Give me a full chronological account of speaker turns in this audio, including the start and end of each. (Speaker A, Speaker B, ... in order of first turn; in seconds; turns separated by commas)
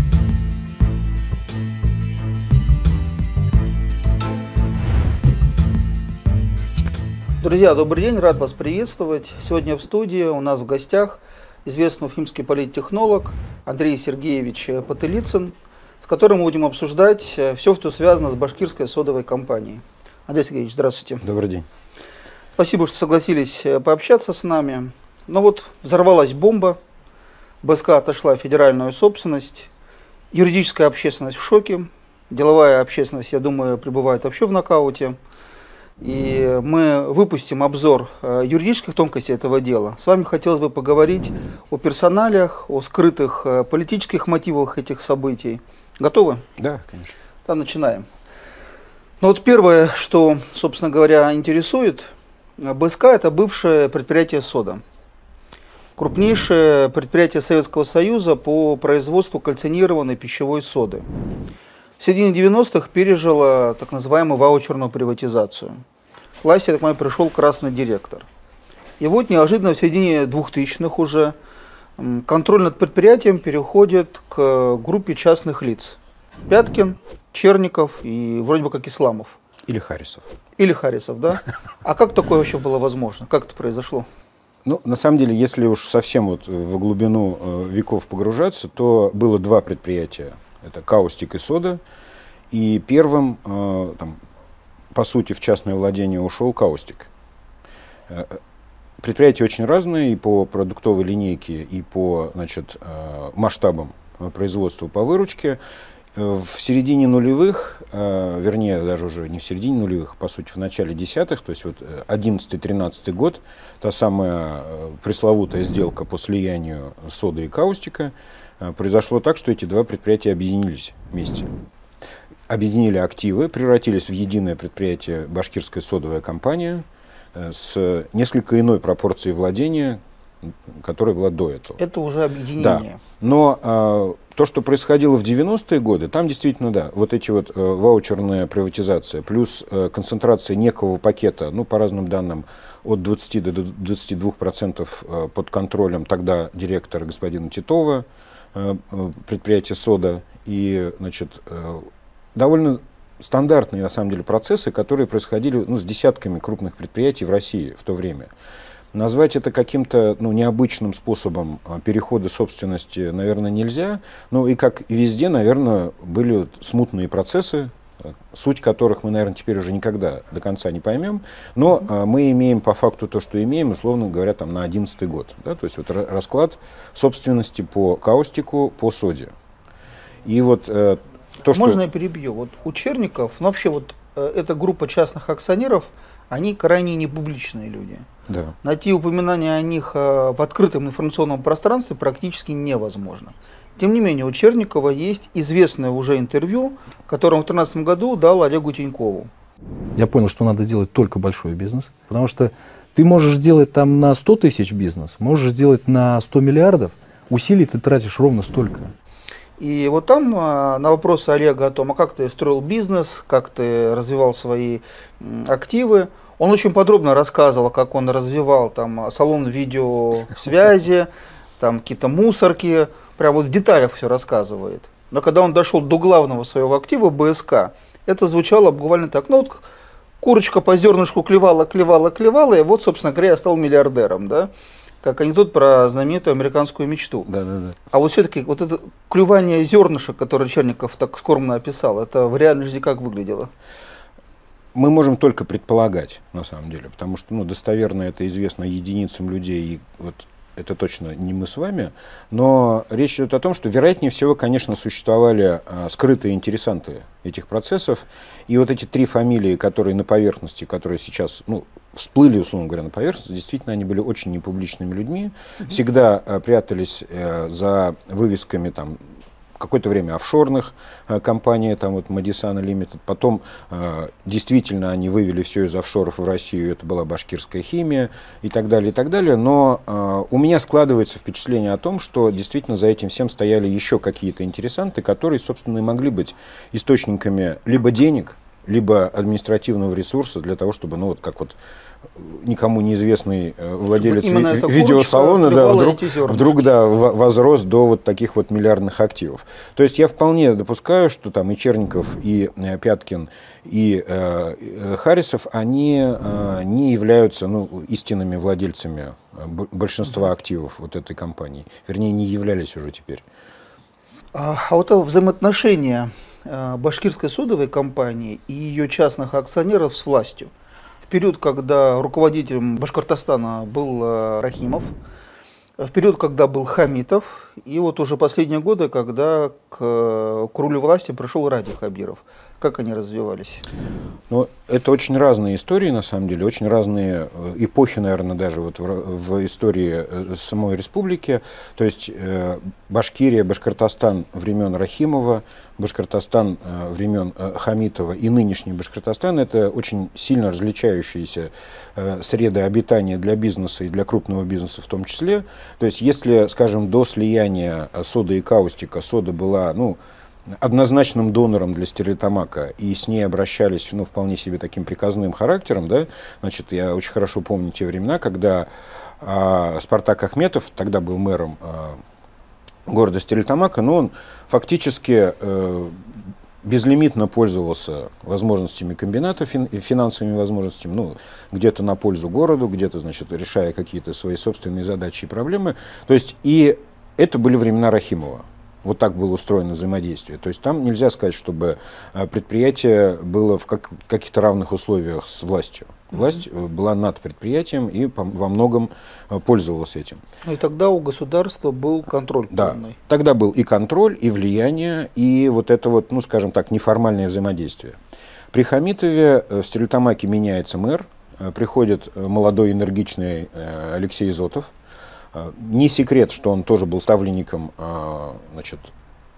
Speaker A: 7.4-21.2, Speaker B: 21.2-21.6, Speaker A: 22.6-26.8, Speaker A: 27.6-29.7, Speaker A: 30.3-35.2, Speaker A: 36.0-46.5, Speaker B: 46.6-47.2, Speaker A: 47.5-48.1, Speaker A: 49.2-54.8, Speaker A: 56.0-61.1, Speaker A: 62.0-65.8, Speaker A: 66.4-68.3, Speaker A: 69.0-71.3, Speaker A: 72.0-79.4, Speaker B: 79.7-80.3, Speaker A: 80.6-84.1, Speaker B: 84.7-91.8, Speaker B: 92.5-94.2, Speaker B: 94.9-97.1, Speaker B: 98.1-98.4, Speaker B: 99.0-105.6, Speaker B: 106.1-121.5, Speaker B: 122.5-131.8, Speaker A: 131.8-133.0, Speaker B: 132.6-158.3, Speaker B: 158.9-179.3, Speaker B: 180.2-181.8, Speaker A: 181.5-188.1, Speaker B: 188.3-188.5, Speaker A: 188.6-199.3, Speaker C: 199.9-208.9, Speaker A: 209.6-229.7, Speaker A: 230.2-234.5, Speaker A: 235.0-237.3, Speaker B: 237.3-237.8, Speaker A: 237.9-243.5, Speaker B: 244.7-269.0, Speaker B: 269.6-291.6, Speaker B: 292.1-313.2, Speaker A: 293.9-296.7, Speaker A: 314.4-320.5, Speaker A: 321.1-324.9, Speaker A: 325.8-333.6, Speaker B: 334.3-368.7, Speaker B: 369.2-372.0, Speaker B: 372.9-400.2, Speaker A: 400.4-403.0, Speaker B: 402.5-408.0, Speaker B: 408.5-414.7, Speaker B: 415.3-418.9